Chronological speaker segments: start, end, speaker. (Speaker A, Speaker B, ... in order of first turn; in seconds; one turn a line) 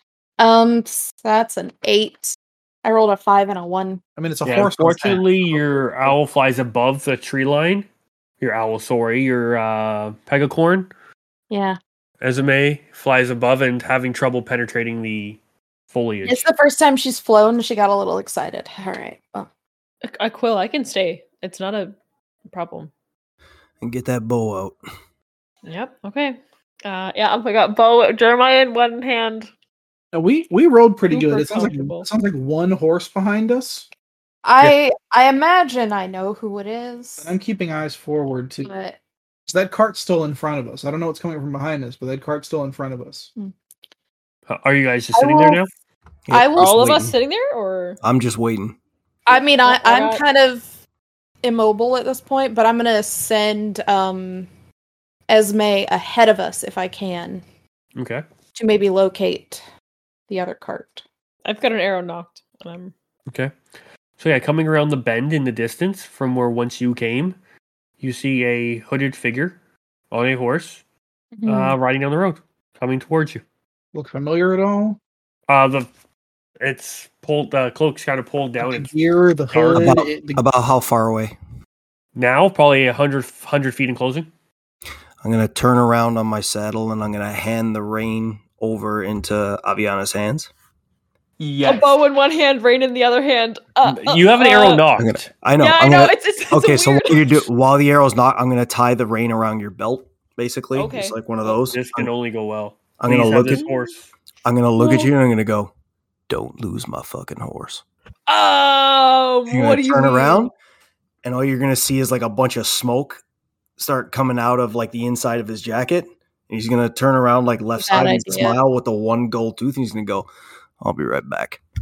Speaker A: 0.4-4.0
Speaker B: 4.2-5.3
Speaker C: 4.5-7.9
Speaker C: 8.4-10.9
Speaker A: 11.5-11.8
Speaker C: 12.2-15.4
Speaker C: 15.9-16.5
Speaker A: 16.2-19.5
Speaker D: 20.1-21.9
Speaker D: 22.5-22.9
Speaker E: 23.8-24.8
Speaker D: 25.6-29.5
Speaker B: 30.1-33.9
Speaker D: 31.1-32.1
Speaker A: 34.4-37.3
Speaker B: 37.2-38.7
Speaker A: 38.6-39.0
Speaker B: 39.5-43.3
Speaker C: 44.5-45.7
Speaker A: 45.1-45.6
Speaker E: 46.3-47.1
Speaker A: 46.3-46.7
Speaker D: 46.6-48.0
Speaker E: 48.0-48.8
Speaker A: 49.3-50.7
Speaker D: 49.3-50.2
Speaker A: 51.4-54.5
Speaker A: 55.3-57.4
Speaker C: 58.0-58.2
Speaker A: 58.5-59.6
Speaker A: 60.3-61.0
Speaker D: 61.5-62.9
Speaker C: 63.3-63.5
Speaker C: 64.2-67.4
Speaker C: 68.0-69.6
Speaker C: 70.1-70.8
Speaker A: 71.3-71.8
Speaker C: 71.5-73.4
Speaker B: 73.9-75.0
Speaker C: 75.5-75.9
Speaker C: 76.6-78.9
Speaker B: 78.6-80.4
Speaker C: 79.5-80.1
Speaker E: 79.8-81.4
Speaker C: 82.2-84.3
Speaker E: 85.2-90.5
Speaker C: 91.4-92.0
Speaker D: 91.6-94.9
Speaker C: 93.8-95.3
Speaker E: 95.0-102.1
Speaker D: 95.6-97.5
Speaker D: 100.8-101.2
Speaker C: 101.5-104.1
Speaker E: 103.0-103.6
Speaker D: 103.5-103.8
Speaker E: 104.5-105.7
Speaker D: 104.8-105.1
Speaker E: 106.3-107.8
Speaker D: 108.3-110.5
Speaker E: 109.5-110.5
Speaker E: 111.2-113.2
Speaker E: 113.8-120.3
Speaker A: 117.8-118.6
Speaker E: 120.8-121.6